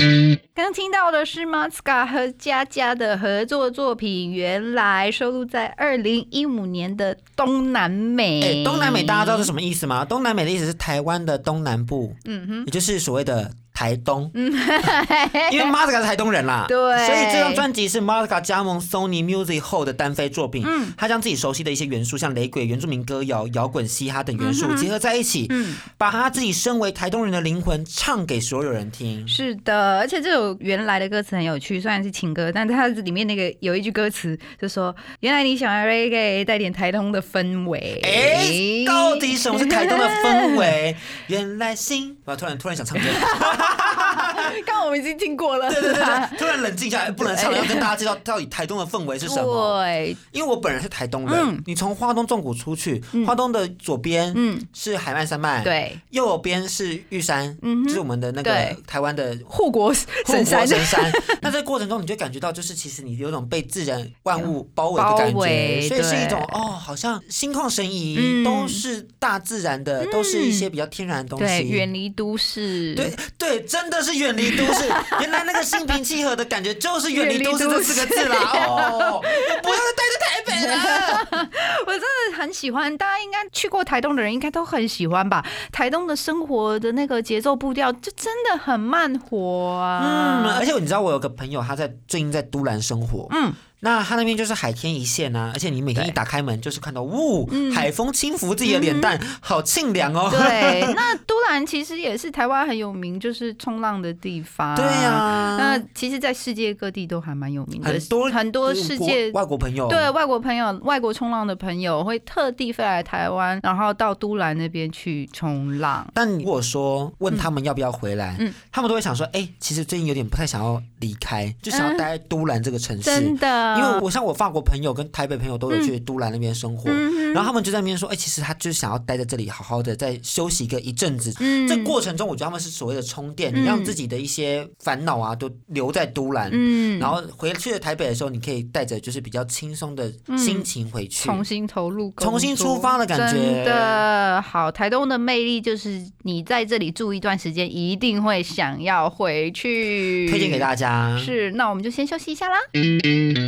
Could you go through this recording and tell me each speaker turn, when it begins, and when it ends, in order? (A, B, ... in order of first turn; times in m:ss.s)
0:00.6-0:09.5 A
0:08.4-0:14.3 B
0:12.3-0:12.7 A
0:14.3-0:15.7 A
0:15.5-0:29.4 B
0:16.7-0:17.7 A
0:20.6-0:21.0 A
0:24.4-0:24.9 A
0:25.5-0:25.8 A
0:29.3-0:40.7 A
0:38.0-0:44.6 B
0:43.0-0:46.6 A
0:45.7-0:49.8 B
0:47.1-0:47.9 A
0:49.2-0:50.2 A
0:50.3-0:59.5 B
0:51.3-0:51.6 A
0:54.3-0:54.7 A
0:55.6-0:56.0 A
0:57.6-0:58.8 A
0:59.5-1:01.5 A
1:00.2-1:11.9 B
1:04.4-1:06.7 A
1:08.2-1:08.8 A
1:10.0-1:10.7 A
1:11.4-1:13.2 A
1:13.0-1:21.3 B
1:14.4-1:15.9 A
1:17.1-1:19.8 A
1:20.5-1:30.6 A
1:30.0-1:41.0 B
1:33.3-1:33.6 A
1:37.5-1:37.9 A
1:38.6-1:39.1 A
1:40.3-1:56.1 A
1:44.8-1:45.8 B
1:47.8-1:50.1 B
1:56.2-2:21.4 B
2:01.7-2:02.1 A
2:03.0-2:04.0 A
2:06.9-2:07.5 A
2:11.4-2:12.0 A
2:13.5-2:14.0 A
2:16.5-2:17.1 A
2:20.3-2:20.7 A
2:21.2-2:32.7 A
2:22.2-2:24.0 B
2:30.3-2:31.3 B